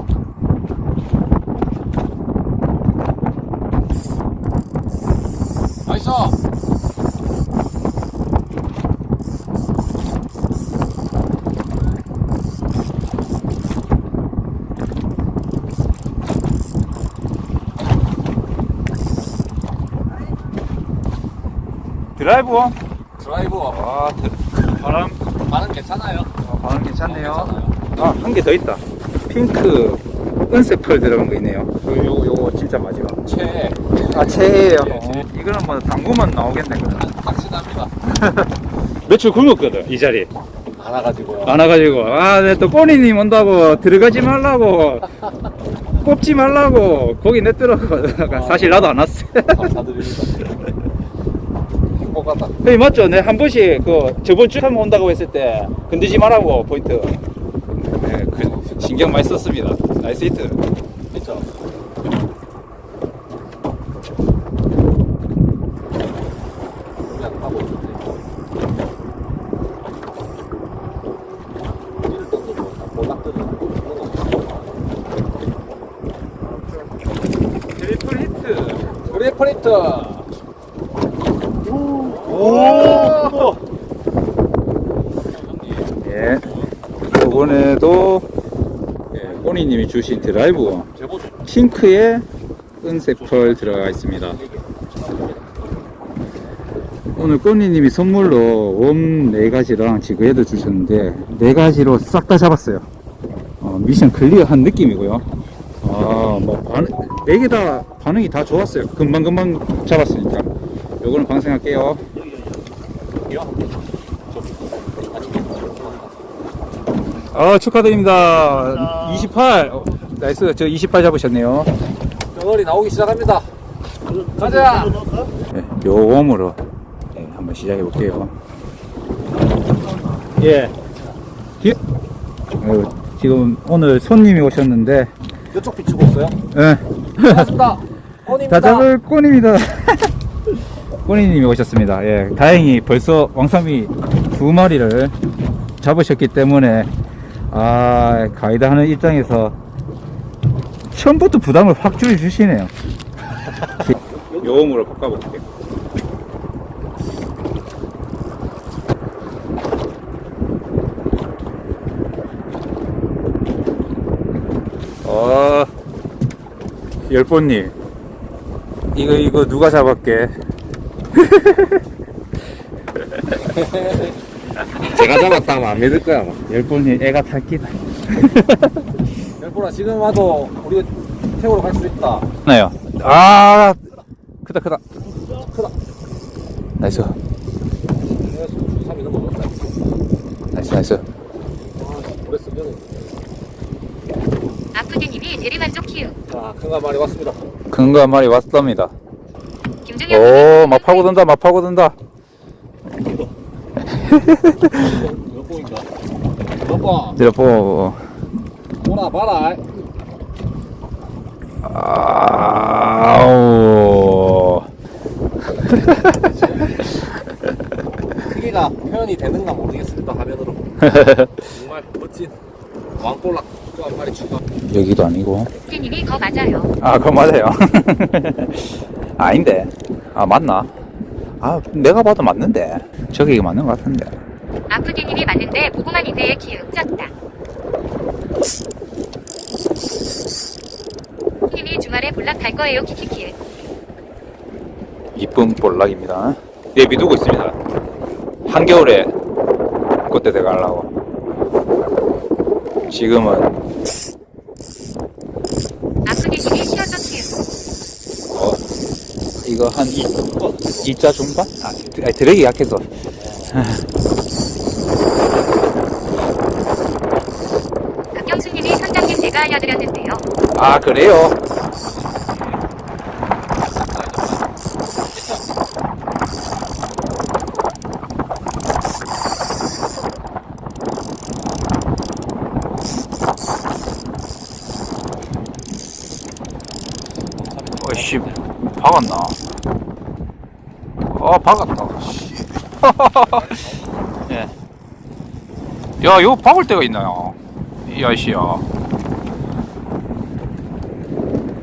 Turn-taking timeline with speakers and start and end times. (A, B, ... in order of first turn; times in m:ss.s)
0:05.9-0:06.4 A
0:22.2-0:22.8 B
0:23.2-0:23.8 A
0:23.7-0:25.2 B
0:25.3-0:26.3 A
0:26.4-0:33.2 B
0:27.0-0:27.8 A
0:33.2-0:35.3 A
0:34.0-0:37.1 B
0:36.9-0:37.9 A
0:38.1-0:38.5 B
0:39.1-0:40.3 B
0:40.8-0:42.0 A
0:41.4-0:45.2 B
0:46.0-0:49.7 B
0:48.0-0:48.9 A
0:49.5-0:50.5 A
0:51.9-0:52.6 A
0:52.6-0:57.2 B
0:57.7-1:00.6 B
0:58.4-0:58.7 A
1:01.1-1:01.5 A
1:07.0-1:08.2 A
1:12.0-1:14.6 A
1:16.5-1:16.9 B
1:17.7-1:19.0 B
1:19.0-1:20.3 A
1:21.9-1:23.6 A
1:22.2-1:23.4 B
1:25.2-1:27.7 A
1:26.0-1:26.5 B
1:27.1-1:28.3 B
1:29.1-1:29.5 A
1:29.2-1:30.9 B
1:30.9-1:31.4 A
1:31.4-1:32.2 B
1:32.8-1:34.4 B
1:33.1-1:35.8 A
1:37.1-1:42.9 B
1:43.6-1:45.3 B
1:45.8-1:50.5 B
1:51.0-1:52.0 B
1:53.2-1:53.8 A
1:54.3-1:56.3 A
1:57.3-2:01.7 B
2:02.3-2:03.5 A
2:04.2-2:05.2 A
2:05.5-2:06.6 B
2:07.1-2:08.3 B
2:10.4-2:10.8 B
2:12.6-2:15.1 B
2:15.5-2:16.4 A
2:16.5-2:17.6 B
2:17.2-2:18.9 A
2:18.5-2:20.1 B
2:21.0-2:25.2 B
2:25.8-2:26.9 B
2:27.5-2:29.6 B
2:30.9-2:32.7 B
2:33.8-2:34.8 A
2:33.8-2:35.4 B
2:45.0-2:45.7 B
2:47.0-2:47.7 B
2:48.9-2:50.3 B
2:51.1-2:51.8 B
2:53.5-2:54.2 A
2:54.7-2:56.4 A
2:56.5-2:58.9 B
2:59.4-3:02.3 A
3:02.4-3:03.8 B
3:04.4-3:04.8 B
3:05.3-3:05.8 A
3:06.8-3:07.2 B
3:08.0-3:09.9 A
3:10.5-3:11.0 B
3:11.7-3:13.2 A
3:14.7-3:16.2 C
3:16.3-3:17.4 A
3:17.7-3:18.9 B
3:19.8-3:21.2 C
3:20.1-3:22.0 B
3:23.9-3:24.8 B
3:24.7-3:25.9 A
3:26.6-3:27.2 A
3:27.2-3:28.0 B
3:28.8-3:29.6 A
3:31.6-3:34.7 B
3:35.9-3:37.0 A
3:38.2-3:42.4 A
3:40.8-3:41.3 B
3:43.0-3:44.4 A
3:44.7-3:45.5 B
3:45.7-3:46.7 C
3:46.8-3:50.7 B
3:51.4-3:54.2 B
3:54.7-3:57.1 C
4:01.5-4:03.4 C
4:05.2-4:07.6 B
4:08.5-4:09.1 B
4:10.1-4:10.9 B
4:12.9-4:13.6 B
4:16.0-4:17.4 C
4:18.3-4:18.6 B
4:19.4-4:20.1 B
4:20.2-4:20.9 A
4:20.8-4:22.9 B
4:23.2-4:23.8 A
4:23.5-4:23.8 B
4:28.1-4:30.2 C
4:30.5-4:31.4 B
4:33.6-4:34.5 A
4:35.1-4:35.4 A
4:47.4-4:48.4 A
4:47.8-4:49.4 B
4:51.1-4:53.5 B
4:53.2-4:54.1 A
4:56.0-4:58.7 B